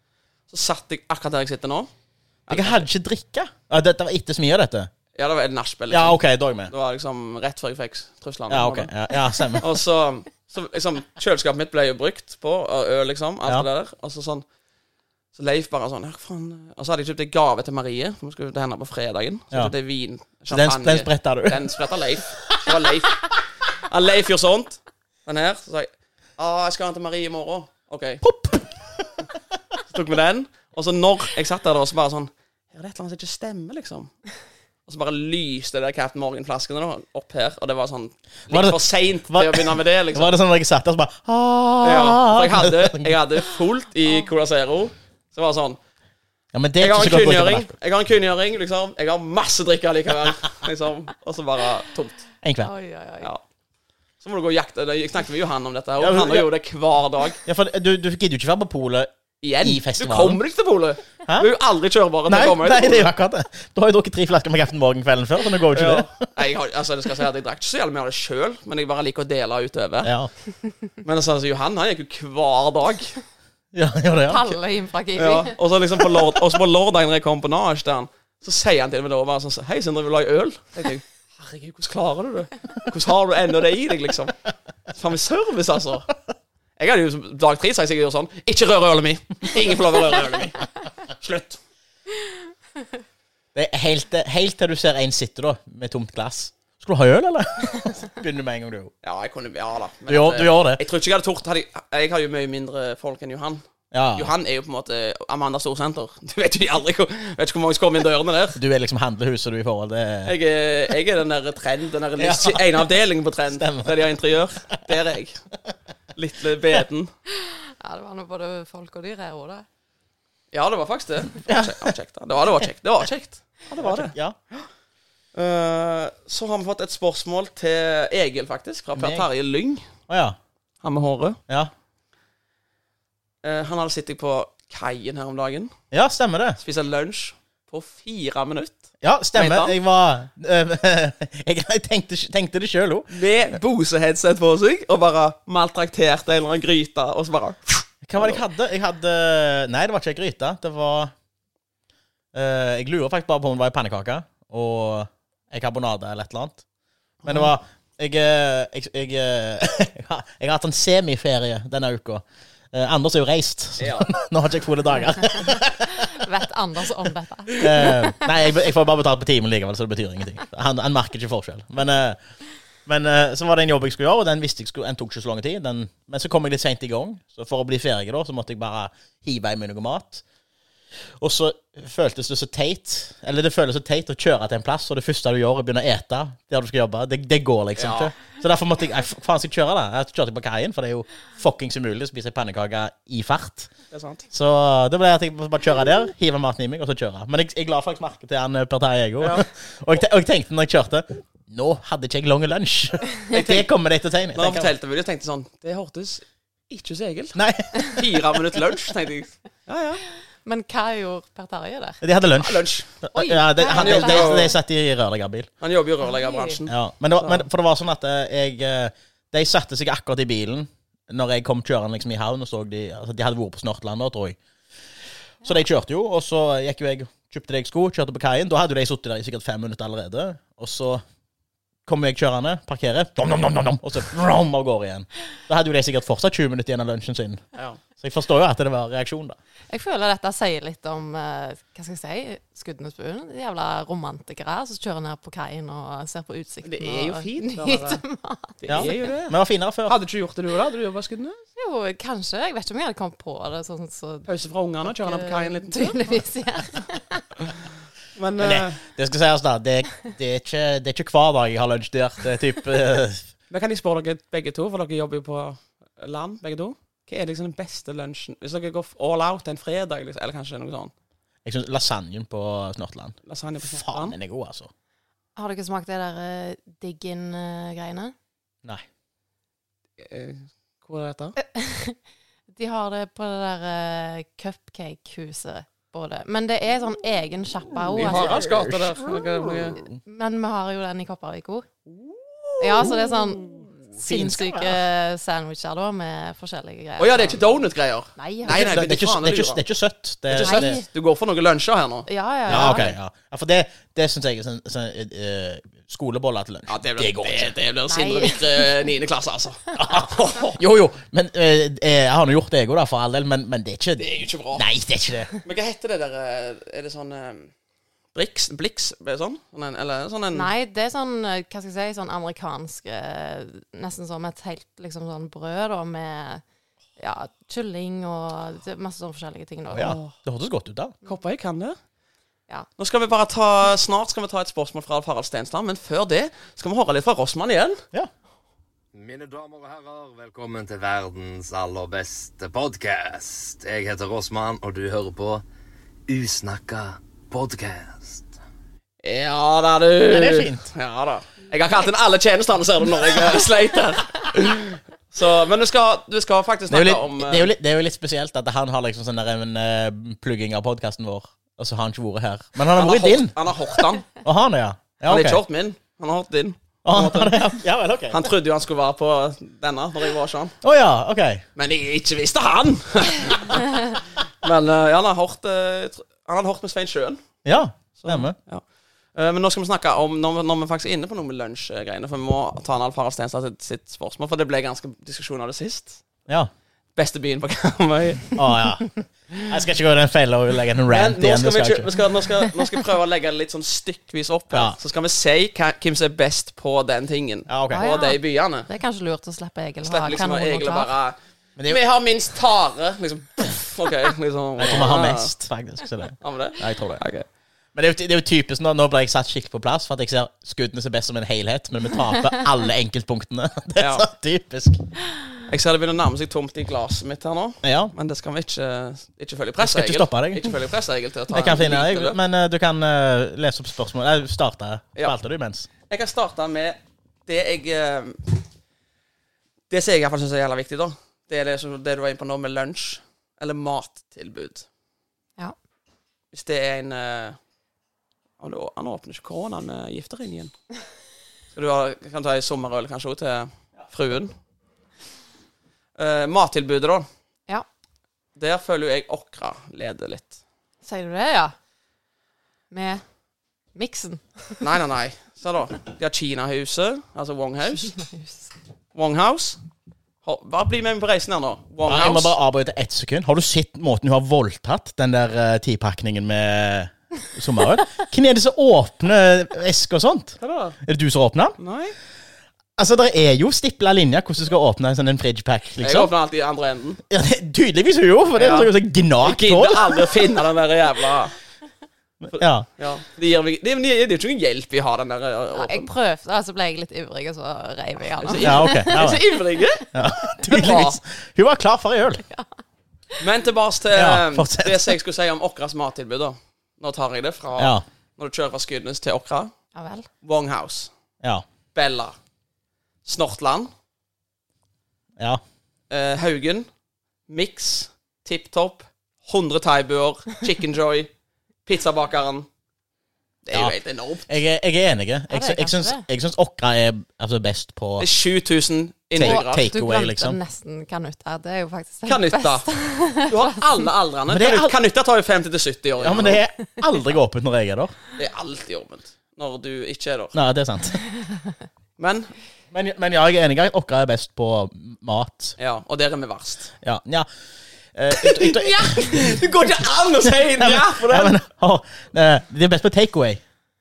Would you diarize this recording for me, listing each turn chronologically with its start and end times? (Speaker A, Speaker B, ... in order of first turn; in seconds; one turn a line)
Speaker A: 0.5-1.9
Speaker A: 2.5-2.8
Speaker B: 2.5-4.9
Speaker A: 5.1-8.9
Speaker B: 5.9-6.7
Speaker B: 8.5-9.7
Speaker A: 9.5-14.4
Speaker A: 15.3-28.2
Speaker B: 20.5-21.7
Speaker B: 28.2-29.1
Speaker A: 29.9-34.1
Speaker A: 34.9-40.3
Speaker B: 38.5-43.2
Speaker A: 41.8-45.8
Speaker B: 46.5-47.7
Speaker A: 46.8-52.2
Speaker B: 52.4-52.7
Speaker C: 52.6-53.3
Speaker A: 54.2-57.4
Speaker B: 56.0-56.5
Speaker B: 57.4-59.1
Speaker A: 59.4-63.1
Speaker B: 59.6-60.4
Speaker B: 62.3-66.1
Speaker A: 65.7-70.1
Speaker B: 70.0-70.3
Speaker A: 71.0-73.2
Speaker B: 73.7-74.5
Speaker C: 74.3-75.5
Speaker A: 75.2-84.3
Speaker A: 84.9-86.1
Speaker A: 86.8-90.7
Speaker A: 91.2-91.6
Speaker B: 93.5-98.9
Speaker A: 99.0-103.6
Speaker B: 100.1-100.8
Speaker B: 103.9-104.3
Speaker A: 104.1-108.6
Speaker B: 108.5-110.3
Speaker A: 110.2-115.4
Speaker B: 112.2-112.8
Speaker B: 113.5-114.0
Speaker A: 116.1-117.1
Speaker C: 117.5-119.6
Speaker A: 120.5-124.6
Speaker B: 121.4-121.9
Speaker B: 123.8-124.4
Speaker A: 125.3-129.9
Speaker B: 128.9-129.3
Speaker B: 130.1-130.4
Speaker A: 130.8-131.4
Speaker A: 133.4-135.7
Speaker B: 135.9-136.6
Speaker A: 136.6-138.8
Speaker B: 139.0-143.1
Speaker A: 139.3-139.7
Speaker A: 143.1-148.4
Speaker B: 148.0-151.1
Speaker B: 152.3-156.6
Speaker B: 157.2-166.1
Speaker A: 163.8-164.1
Speaker C: 165.8-168.3
Speaker B: 167.5-172.2
Speaker B: 172.8-180.2
Speaker B: 181.2-193.7
Speaker A: 187.8-188.1
Speaker A: 193.9-194.2
Speaker B: 194.3-204.7
Speaker A: 203.3-203.7
Speaker A: 204.3-210.0
Speaker B: 207.3-208.4
Speaker C: 210.4-212.0
Speaker B: 212.0-215.5
Speaker A: 212.4-212.9
Speaker C: 213.2-214.5
Speaker A: 213.6-214.5
Speaker A: 215.6-217.4
Speaker C: 216.0-216.6
Speaker B: 216.7-224.4
Speaker B: 225.4-231.0
Speaker B: 231.8-237.4
Speaker B: 238.0-239.4
Speaker C: 239.7-248.9
Speaker A: 246.6-248.0
Speaker A: 248.6-249.3
Speaker B: 248.7-249.9
Speaker A: 249.8-251.4
Speaker C: 251.6-254.3
Speaker A: 254.3-256.1
Speaker C: 255.0-257.2
Speaker A: 258.1-258.8
Speaker B: 258.4-263.3
Speaker A: 263.5-270.9
Speaker B: 271.4-274.7
Speaker A: 273.2-274.1
Speaker C: 275.4-278.1
Speaker A: 280.0-281.4
Speaker C: 281.4-282.0
Speaker C: 282.5-288.5
Speaker A: 287.9-289.8
Speaker B: 287.9-290.0
Speaker C: 290.0-291.7
Speaker A: 291.9-293.7
Speaker C: 292.6-297.5
Speaker B: 294.0-294.8
Speaker A: 297.0-299.6
Speaker C: 298.2-298.7
Speaker B: 298.4-300.8
Speaker A: 300.3-302.9
Speaker C: 300.4-300.8
Speaker C: 302.1-302.9
Speaker B: 302.5-307.6
Speaker A: 306.7-309.6
Speaker C: 307.9-308.8
Speaker B: 309.8-315.3
Speaker A: 314.0-314.6
Speaker A: 315.4-317.5
Speaker A: 318.1-320.5
Speaker C: 320.3-326.4
Speaker C: 327.0-330.0
Speaker B: 329.7-330.9
Speaker A: 329.7-330.1
Speaker A: 331.0-331.8
Speaker A: 332.8-337.8
Speaker D: 338.9-345.4
Speaker D: 346.1-348.3
Speaker A: 349.0-357.5
Speaker B: 350.1-350.6
Speaker B: 356.7-363.3
Speaker A: 362.7-364.1
Speaker B: 364.2-365.4
Speaker A: 365.1-367.5
Speaker B: 366.8-368.2
Speaker A: 368.1-370.6
Speaker B: 370.6-371.4
Speaker A: 371.6-377.2
Speaker B: 377.4-378.4
Speaker A: 377.9-378.6
Speaker A: 379.1-386.0
Speaker A: 386.9-388.4
Speaker B: 388.4-391.9
Speaker A: 390.9-398.7
Speaker B: 394.5-394.8
Speaker B: 397.5-397.8
Speaker C: 397.7-400.9
Speaker A: 399.8-401.1
Speaker A: 401.7-405.3
Speaker B: 404.6-407.0
Speaker A: 406.2-407.2
Speaker B: 407.7-414.8
Speaker A: 413.8-414.1
Speaker A: 415.5-422.2
Speaker B: 417.6-417.9
Speaker B: 419.6-420.6
Speaker B: 421.3-425.7
Speaker A: 425.9-428.4
Speaker A: 429.7-434.6
Speaker A: 436.3-437.4
Speaker A: 438.4-440.5
Speaker A: 441.5-444.3
Speaker A: 446.0-447.1
Speaker A: 448.4-450.4
Speaker C: 450.8-451.5
Speaker C: 452.7-453.0
Speaker C: 453.7-454.6
Speaker A: 454.6-457.9
Speaker C: 457.8-458.5
Speaker A: 458.9-459.6
Speaker A: 460.2-462.3
Speaker B: 461.9-471.6
Speaker A: 470.4-470.8
Speaker A: 471.6-471.9
Speaker B: 472.8-476.1
Speaker A: 475.8-477.0
Speaker B: 477.1-480.2
Speaker A: 478.4-481.3
Speaker B: 482.2-482.7
Speaker A: 482.8-485.9
Speaker C: 485.5-489.3
Speaker A: 488.2-489.9
Speaker B: 488.4-489.2
Speaker B: 489.9-492.2
Speaker A: 490.5-491.0
Speaker A: 493.2-499.5
Speaker B: 493.9-494.9
Speaker B: 497.6-497.8
Speaker C: 499.7-500.1
Speaker A: 500.2-500.9
Speaker A: 501.7-502.1
Speaker A: 503.0-503.7
Speaker A: 505.9-506.7
Speaker A: 507.3-511.1
Speaker A: 511.6-512.5
Speaker A: 513.4-514.3
Speaker B: 514.3-518.1
Speaker C: 515.3-516.0
Speaker A: 518.0-519.6
Speaker B: 519.1-520.4
Speaker C: 519.2-523.6
Speaker A: 522.0-526.4
Speaker B: 524.3-524.7
Speaker B: 526.0-527.9
Speaker A: 528.1-530.3
Speaker B: 530.3-531.0
Speaker A: 532.0-532.3
Speaker B: 532.7-535.5
Speaker A: 535.6-536.7
Speaker B: 536.8-537.3
Speaker B: 537.9-539.4
Speaker A: 538.1-541.4
Speaker B: 540.3-543.4